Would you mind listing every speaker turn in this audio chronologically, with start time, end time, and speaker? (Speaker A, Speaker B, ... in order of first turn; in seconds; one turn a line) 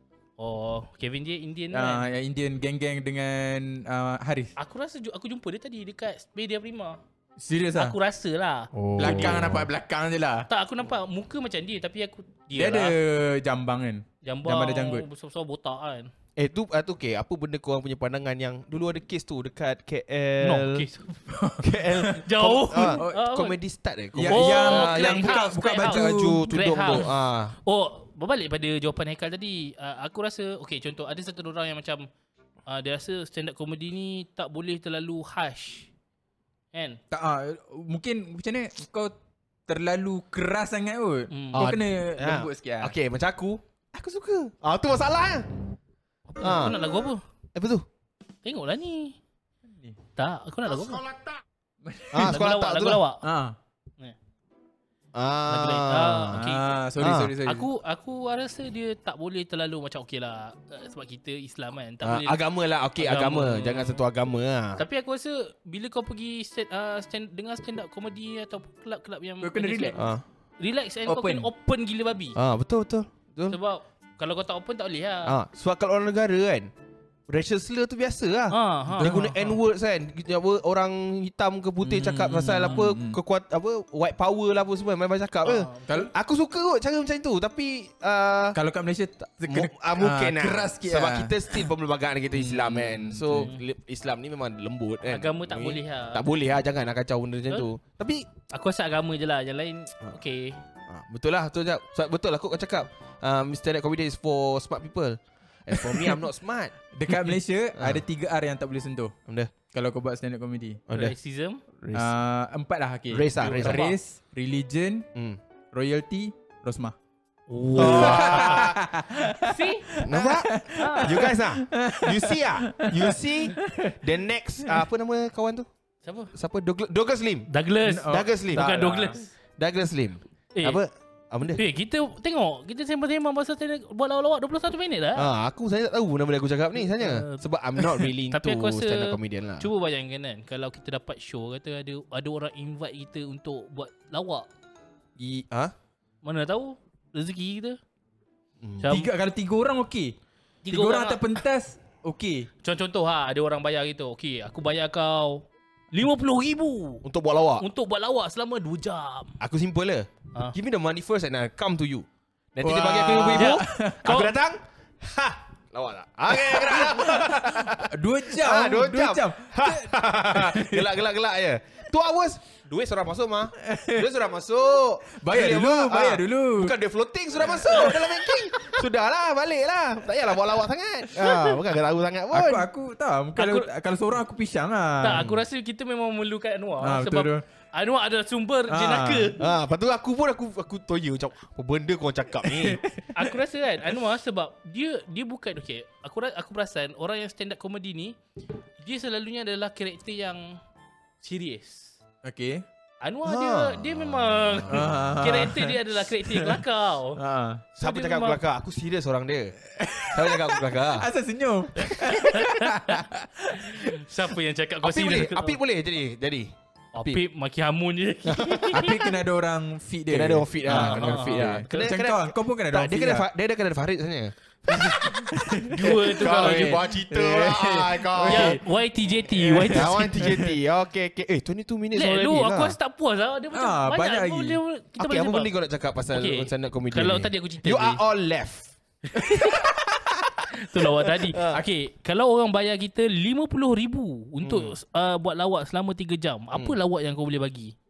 Speaker A: 0.4-2.0
Speaker B: 1.7-4.5
Speaker A: 4.6-7.0
Speaker B: 7.4-8.0
Speaker A: 7.7-9.5
Speaker C: 8.7-9.7
Speaker B: 9.0-10.5
Speaker A: 10.5-13.0
Speaker B: 12.5-15.1
Speaker A: 14.2-16.1
Speaker C: 16.4-20.9
Speaker A: 20.4-21.2
Speaker B: 21.3-22.2
Speaker C: 21.6-27.6
Speaker A: 22.1-23.6
Speaker B: 22.8-23.3
Speaker B: 24.1-27.1
Speaker A: 24.3-32.1
Speaker A: 32.7-35.9
Speaker A: 36.7-37.0
Speaker B: 37.1-39.2
Speaker B: 39.7-42.9
Speaker A: 41.3-41.6
Speaker C: 41.5-45.5
Speaker A: 46.3-47.2
Speaker C: 46.4-46.8
Speaker C: 47.5-47.9
Speaker A: 48.4-49.2
Speaker A: 50.2-51.1
Speaker B: 51.8-52.4
Speaker C: 52.1-53.0
Speaker A: 52.2-53.3
Speaker B: 53.2-53.6
Speaker C: 55.1-56.4
Speaker A: 55.5-62.5
Speaker B: 56.3-57.7
Speaker C: 57.0-57.3
Speaker C: 62.0-64.8
Speaker A: 63.0-64.0
Speaker A: 64.8-70.0
Speaker B: 69.4-70.0
Speaker C: 70.0-70.2
Speaker A: 70.6-72.4
Speaker B: 71.1-71.5
Speaker C: 72.3-73.6
Speaker A: 73.5-75.3
Speaker C: 75.2-76.7
Speaker C: 77.3-88.6
Speaker A: 78.5-79.6
Speaker B: 79.0-79.3
Speaker B: 81.8-83.2
Speaker A: 85.5-86.1
Speaker B: 88.5-91.7
Speaker C: 89.5-98.3
Speaker B: 92.3-93.5
Speaker A: 93.3-93.6
Speaker A: 95.0-96.3
Speaker A: 98.5-100.6
Speaker C: 100.9-106.8
Speaker B: 105.7-106.2
Speaker B: 106.9-109.1
Speaker C: 107.8-108.0
Speaker C: 109.3-109.5
Speaker B: 109.7-110.8
Speaker C: 110.9-111.2
Speaker A: 110.9-111.6
Speaker C: 111.8-112.1
Speaker B: 111.9-115.1
Speaker C: 113.1-113.9
Speaker A: 113.4-114.0
Speaker B: 115.7-117.0
Speaker A: 117.5-118.7
Speaker C: 117.8-118.8
Speaker B: 117.8-124.0
Speaker A: 119.2-120.0
Speaker C: 120.0-125.7
Speaker A: 120.8-121.3
Speaker A: 126.0-126.3
Speaker C: 126.3-127.5
Speaker A: 127.5-129.3
Speaker B: 127.8-129.2
Speaker C: 128.1-128.8
Speaker C: 129.6-131.7
Speaker A: 130.6-130.8
Speaker A: 131.6-135.3
Speaker C: 135.2-139.7
Speaker A: 136.9-144.5
Speaker B: 145.2-145.4
Speaker A: 146.2-147.8
Speaker C: 148.6-148.9
Speaker A: 148.8-149.1
Speaker B: 148.9-150.2
Speaker A: 150.6-151.4
Speaker B: 150.7-152.5
Speaker A: 152.6-157.1
Speaker C: 157.0-157.7
Speaker A: 157.6-159.4
Speaker C: 159.4-182.7
Speaker B: 162.6-164.1
Speaker A: 162.9-164.4
Speaker B: 166.3-171.0
Speaker B: 173.6-174.1
Speaker B: 175.1-176.8
Speaker B: 177.6-178.4
Speaker A: 181.2-181.5
Speaker B: 182.3-185.3
Speaker A: 183.4-183.7
Speaker A: 185.0-189.4
Speaker C: 185.1-185.4
Speaker B: 186.8-187.4
Speaker B: 188.7-189.4
Speaker C: 189.4-192.8
Speaker B: 192.4-193.4
Speaker A: 193.1-198.2
Speaker A: 198.8-200.6
Speaker A: 201.2-201.9
Speaker B: 202.2-202.7
Speaker A: 203.0-207.2
Speaker C: 203.2-205.2
Speaker B: 204.7-207.6
Speaker C: 207.8-209.6
Speaker A: 207.8-208.4
Speaker B: 209.6-214.3
Speaker C: 210.1-211.1
Speaker C: 211.8-212.2
Speaker A: 212.2-213.0
Speaker A: 213.7-215.6
Speaker C: 214.8-216.5
Speaker A: 216.9-219.1
Speaker C: 218.2-218.9
Speaker B: 218.7-223.3
Speaker C: 220.1-228.6
Speaker A: 220.7-222.0
Speaker B: 224.7-228.6
Speaker A: 224.9-226.8
Speaker A: 228.3-230.3
Speaker B: 229.3-230.6
Speaker C: 229.7-232.8
Speaker A: 231.9-235.5
Speaker B: 233.5-234.6
Speaker C: 235.0-238.8
Speaker A: 236.1-238.0
Speaker A: 239.1-239.7
Speaker B: 239.1-240.9
Speaker A: 240.5-247.8
Speaker C: 241.3-241.6
Speaker C: 244.4-244.8